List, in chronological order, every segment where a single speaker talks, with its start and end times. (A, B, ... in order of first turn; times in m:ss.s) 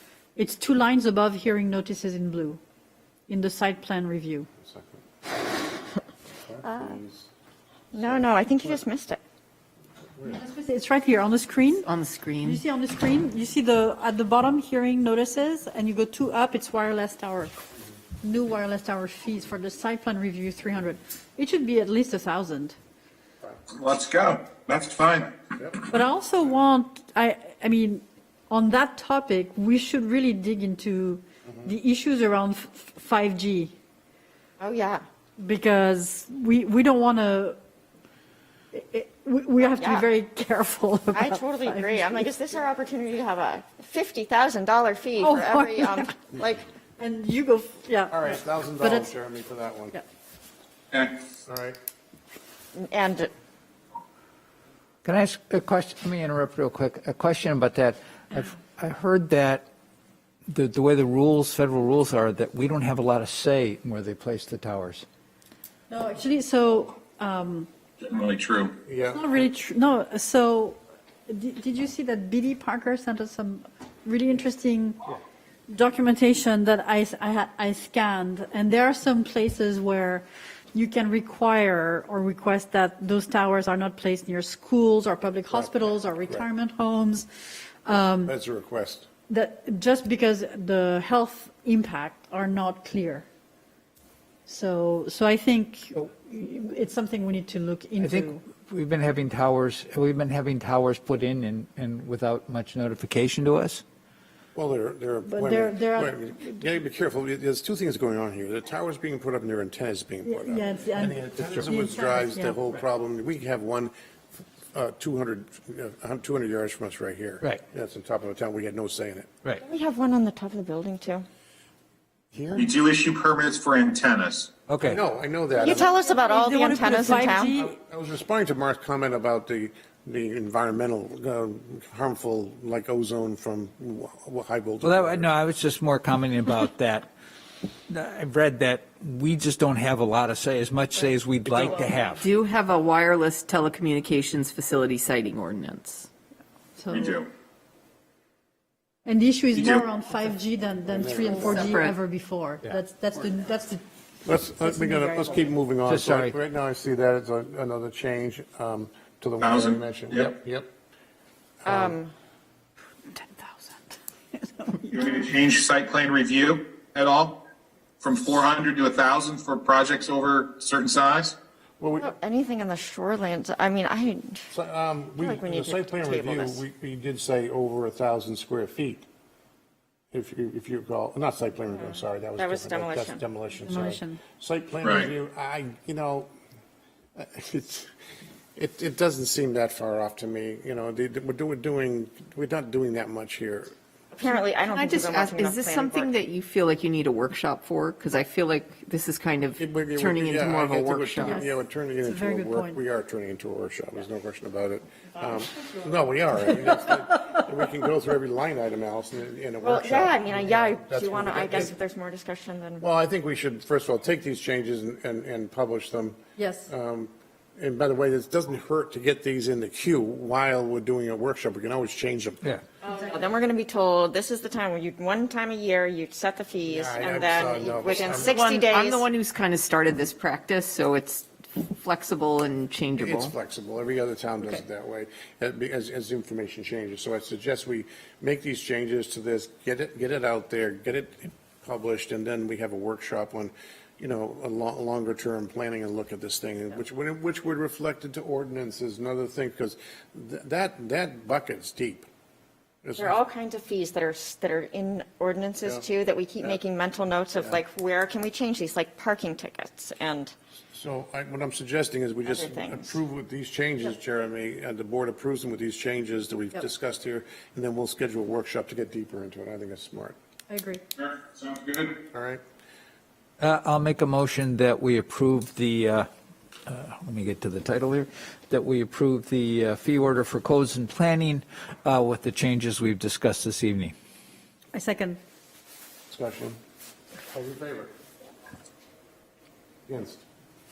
0:00.4-0:02.6 A
0:03.3-0:04.5 A
0:04.6-0:05.0 B
0:06.5-0:07.3 B
0:06.6-0:07.0 C
0:07.9-0:08.8 B
0:07.9-0:09.2 C
0:10.3-0:11.9 A
0:11.8-0:12.6 D
0:12.4-0:17.6 A
0:18.2-0:22.8 A
0:23.7-0:25.4 E
0:25.9-0:33.7 A
0:34.6-0:35.0 C
0:35.4-0:37.6 A
0:38.7-0:42.3 A
0:39.6-0:40.1 C
0:41.1-0:46.7 C
0:45.2-0:46.1 A
0:47.0-0:49.1 A
0:48.1-0:50.0 B
0:50.9-0:51.2 E
0:51.5-0:51.8 B
0:52.8-0:53.3 C
0:55.0-0:59.6 F
1:00.5-1:05.0 F
1:05.9-1:07.7 A
1:08.0-1:08.8 E
1:08.8-1:09.3 B
1:09.0-1:15.0 A
1:15.7-1:27.3 A
1:25.5-1:26.5 B
1:27.8-1:28.4 A
1:28.2-1:29.1 B
1:29.3-1:33.3 A
1:34.5-1:38.4 A
1:38.0-1:43.8 F
1:44.6-1:59.3 B
1:45.3-1:46.2 A
1:50.2-1:52.6 A
1:59.6-2:01.3 C
2:02.3-2:02.7 B
2:02.6-2:04.5 E
2:04.7-2:05.0 F
2:04.8-2:05.9 B
2:05.6-2:07.6 C
2:06.0-2:07.8 A
2:07.1-2:15.3 B
2:14.8-2:17.1 F
2:17.9-2:22.2 F
2:22.2-2:26.1 D
2:26.8-2:27.2 A
2:26.9-2:27.3 E
2:29.0-2:33.8 A
2:29.6-2:29.9 E
2:30.9-2:31.8 B
2:31.5-2:32.0 D
2:34.2-2:40.7 B
2:34.6-2:35.5 A
2:35.9-2:36.4 F
2:39.4-2:40.4 E
2:41.6-2:42.0 B
2:41.7-2:42.1 C
2:43.1-2:45.0 A
2:44.9-2:47.4 E
2:48.0-2:51.4 E
2:51.8-2:52.1 B
2:52.0-2:54.5 C
2:54.5-2:59.1 B
2:55.2-2:56.6 C
3:00.1-3:06.3 B
3:01.7-3:03.2 C
3:03.6-3:04.2 A
3:04.8-3:05.1 E
3:07.2-3:07.9 B
3:08.6-3:13.7 B
3:14.1-3:16.1 C
3:14.7-3:21.5 D
3:19.6-3:31.8 B
3:21.2-3:21.5 A
3:22.0-3:22.8 A
3:25.5-3:25.8 C
3:29.6-3:32.8 C
3:32.8-3:42.4 B
3:36.4-3:36.7 A
3:42.8-3:49.1 C
3:46.7-3:48.4 B
3:48.2-3:53.3 D
3:53.0-4:12.1 B
4:12.8-4:13.2 B
4:13.0-4:20.3 C
4:20.7-4:30.2 B
4:22.2-4:23.0 C
4:30.5-4:30.8 A
4:31.0-4:32.0 E
4:32.1-4:32.4 B
4:33.4-4:36.1 F
4:36.7-4:43.9 F
4:44.7-4:45.2 A
4:46.1-4:46.6 B
4:47.3-4:47.9 B
4:49.9-4:50.2 B